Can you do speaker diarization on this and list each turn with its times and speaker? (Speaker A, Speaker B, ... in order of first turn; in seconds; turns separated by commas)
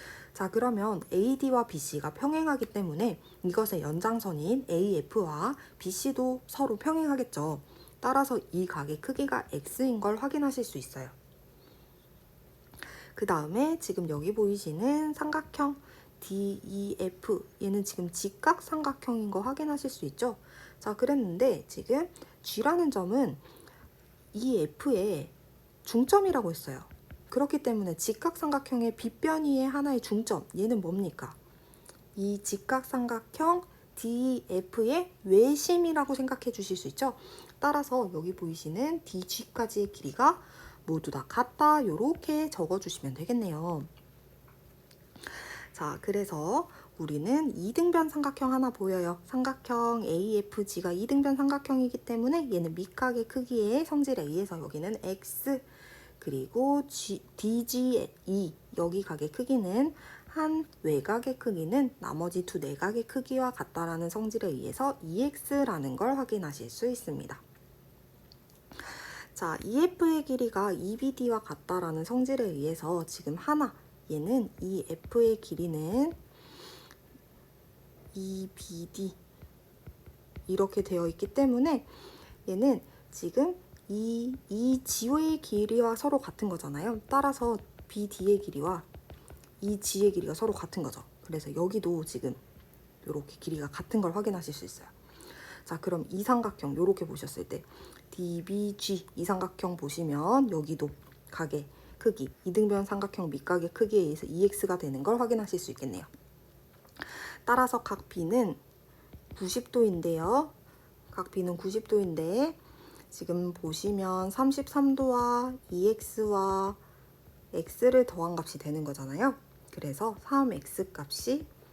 Speaker A: 0.3-11.1, Speaker A: 13.1-23.4, Speaker A: 24.3-25.3, Speaker A: 25.8-31.4, Speaker A: 32.1-43.9, Speaker A: 45.3-55.7, Speaker A: 56.2-67.4, Speaker A: 68.9-76.2, Speaker A: 78.1-79.2, Speaker A: 80.5-81.9, Speaker A: 82.5-88.9, Speaker A: 89.6-92.4, Speaker A: 93.0-94.9, Speaker A: 95.6-106.1, Speaker A: 107.0-108.6, Speaker A: 109.3-110.5, Speaker A: 111.1-112.6, Speaker A: 113.1-116.8, Speaker A: 117.5-121.5